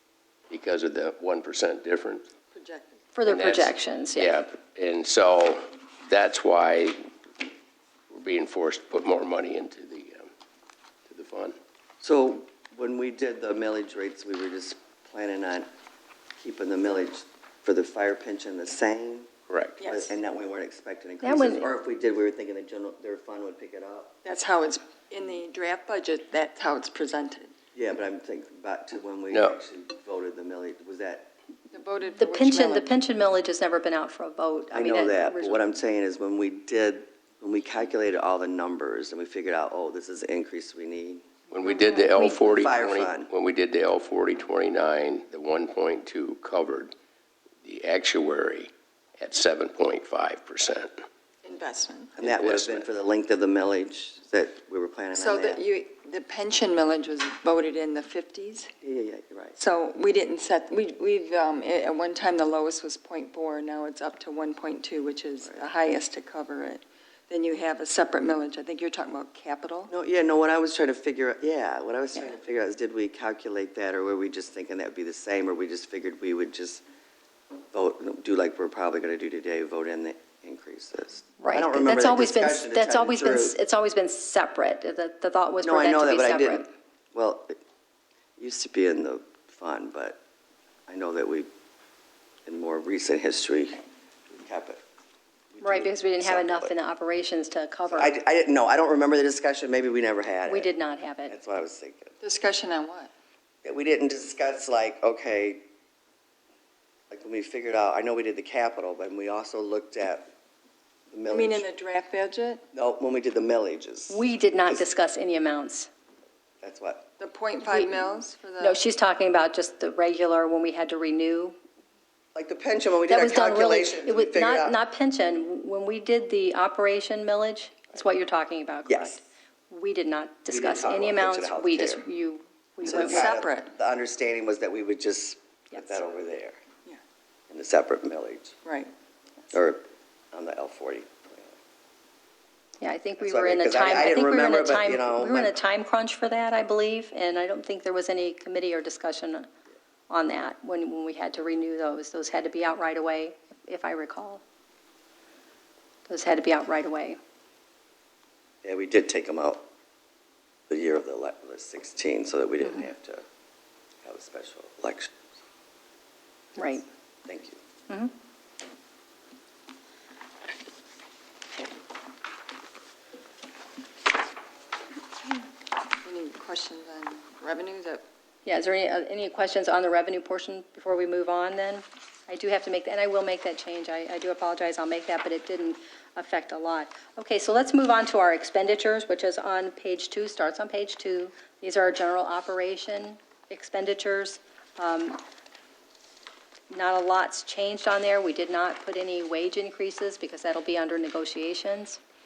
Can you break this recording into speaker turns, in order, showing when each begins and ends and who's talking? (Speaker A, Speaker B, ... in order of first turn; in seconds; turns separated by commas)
Speaker A: 0.5-2.3, Speaker B: 2.5-3.0, Speaker C: 3.1-4.3, Speaker A: 3.3-7.0, Speaker A: 8.1-10.3, Speaker A: 11.1-11.6, Speaker D: 12.0-15.7, Speaker D: 16.4-19.3, Speaker A: 19.5-19.8, Speaker B: 19.8-20.1, Speaker D: 19.8-24.2, Speaker C: 21.2-21.7, Speaker B: 24.2-27.5, Speaker D: 27.8-31.3, Speaker A: 29.3-29.6, Speaker B: 31.7-32.9, Speaker C: 32.2-35.6, Speaker D: 34.7-41.3, Speaker A: 41.5-46.9, Speaker C: 41.7-42.5, Speaker D: 42.4-43.3, Speaker A: 47.6-50.9, Speaker B: 51.4-52.1, Speaker D: 52.2-55.6, Speaker A: 52.2-52.9, Speaker B: 55.1-58.7, Speaker D: 58.8-59.6, Speaker B: 59.6-69.9, Speaker D: 69.9-76.8, Speaker D: 77.7-83.5, Speaker C: 81.4-86.7, Speaker D: 85.6-87.6, Speaker D: 88.4-90.2, Speaker D: 90.9-91.5, Speaker D: 92.5-94.8, Speaker D: 95.5-96.7, Speaker C: 95.6-98.2, Speaker D: 97.9-100.7, Speaker C: 100.5-101.3, Speaker D: 101.3-102.1, Speaker B: 102.2-103.1, Speaker D: 103.6-105.6, Speaker D: 107.1-110.3, Speaker D: 111.1-111.7, Speaker B: 111.3-112.6, Speaker D: 112.7-114.9, Speaker C: 114.1-115.9, Speaker D: 116.6-117.1, Speaker B: 117.2-118.8, Speaker C: 117.7-118.0, Speaker C: 118.6-121.5, Speaker D: 122.3-124.8, Speaker C: 123.1-133.3, Speaker D: 128.9-129.2, Speaker D: 130.5-132.1, Speaker D: 132.8-136.6, Speaker B: 132.9-133.7, Speaker D: 137.5-138.6, Speaker B: 138.7-138.9, Speaker D: 139.5-141.6, Speaker C: 142.8-149.5, Speaker D: 143.2-145.6, Speaker C: 150.1-154.4, Speaker C: 156.1-157.2, Speaker D: 158.6-159.7, Speaker D: 160.7-163.2, Speaker D: 164.0-165.2, Speaker C: 166.6-166.8, Speaker D: 167.3-167.6, Speaker B: 176.0-178.0, Speaker C: 178.4-195.2, Speaker C: 196.7-202.0